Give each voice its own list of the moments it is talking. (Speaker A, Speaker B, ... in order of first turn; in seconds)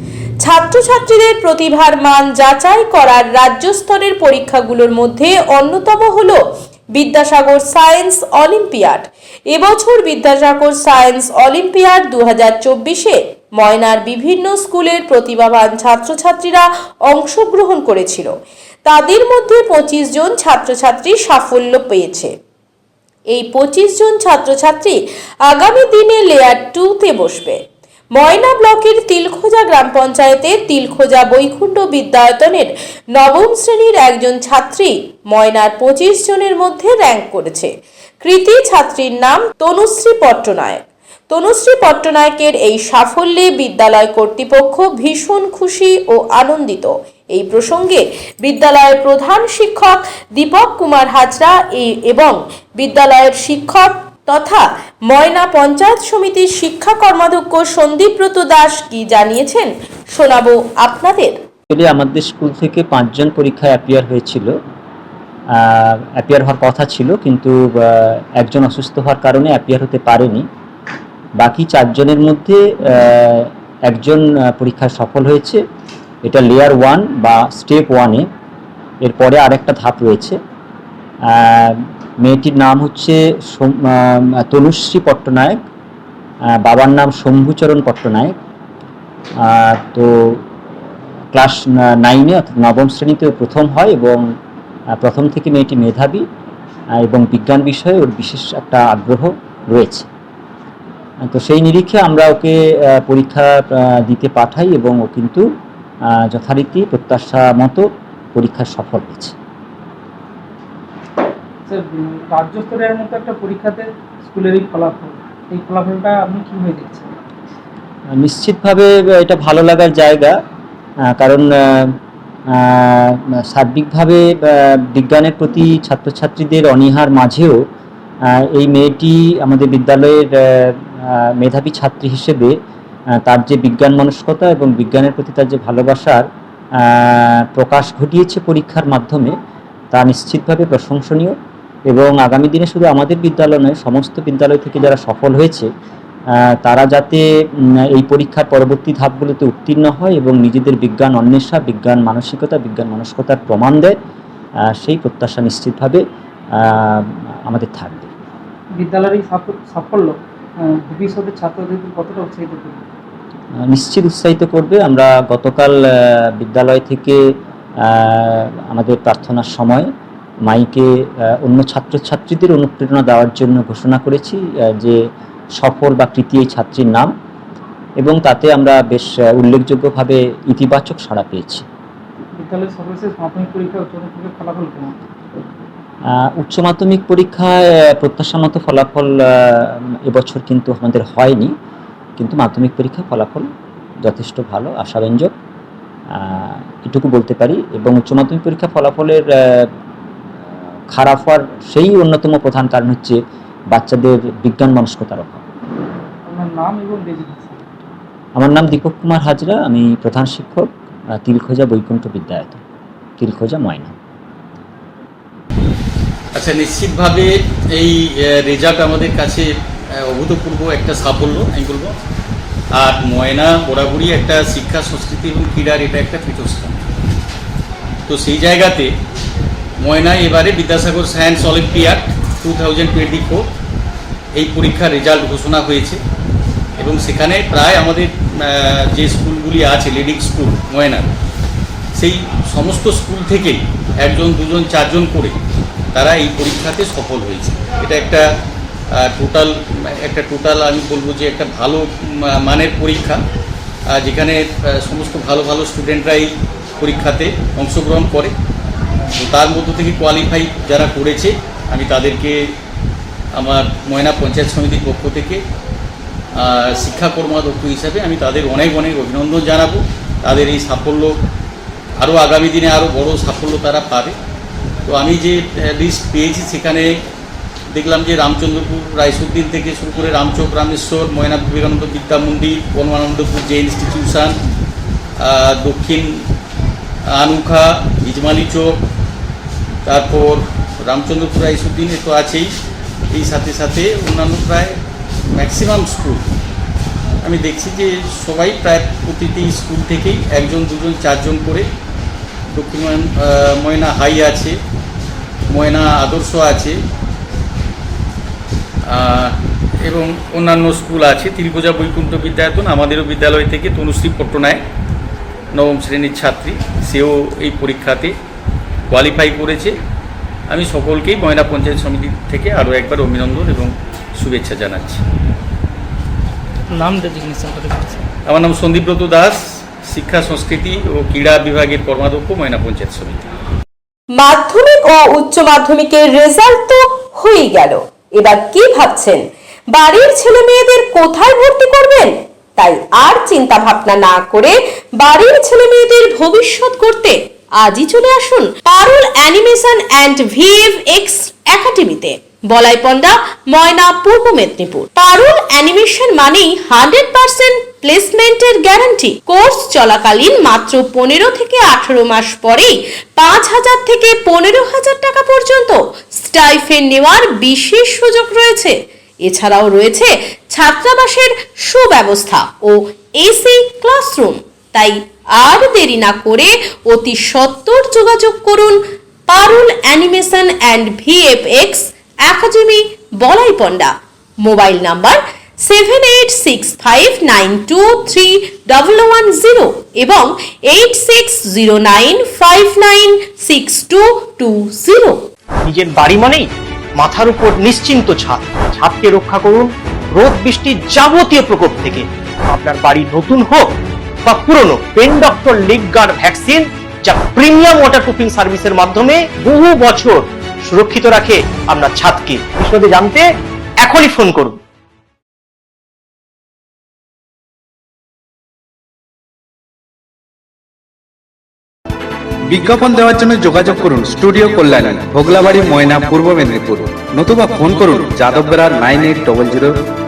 Speaker A: 0.4-6.4, 6.9-18.3, 18.9-22.3, 23.3-27.6, 28.1-37.7, 38.2-61.4, 334.2-339.2, 339.7-395.2
Speaker B: 61.7-64.5, 65.5-70.4, 71.4-75.6, 76.2-78.2, 79.0-80.4, 81.3-85.6, 86.6-88.4, 89.4-90.4, 91.3-94.2, 95.0-96.2, 97.0-100.1, 101.3-105.4, 106.1-109.3, 118.2-120.3, 121.1-122.0, 122.5-127.6, 128.5-132.5, 133.2-136.2, 136.8-139.3, 139.9-141.3, 141.9-145.7, 146.6-147.2, 147.9-153.9, 154.7-156.0, 156.6-158.1, 163.7-167.2, 167.8-169.9, 170.4-175.0, 175.6-177.1, 178.0-181.6, 186.1-191.5, 192.2-193.5, 194.0-195.3, 196.1-199.7, 200.9-203.2, 203.7-205.4, 208.4-210.7, 211.2-212.6, 213.2-213.9
Speaker C: 111.7-117.1, 158.8-162.8, 182.3-184.9, 206.2-207.8, 326.7-328.0
Speaker D: 216.3-221.9, 222.8-226.8, 228.1-228.9, 229.8-233.4, 234.3-236.0, 236.8-241.1, 241.9-245.4, 245.9-248.2, 248.9-253.2, 253.9-258.3, 259.1-262.4, 263.3-265.4, 266.4-271.1, 272.0-274.1, 274.9-276.9, 277.7-284.3, 285.2-286.2, 287.1-288.8, 289.9-292.5, 293.1-294.8, 295.3-296.3, 297.2-301.6, 302.5-304.6, 305.5-306.8, 308.9-314.6, 315.5-318.1, 318.9-319.8, 320.5-325.0, 328.3-333.3
Speaker E: 395.6-403.7, 404.2-413.2, 413.8-414.6
Speaker F: 422.5-429.8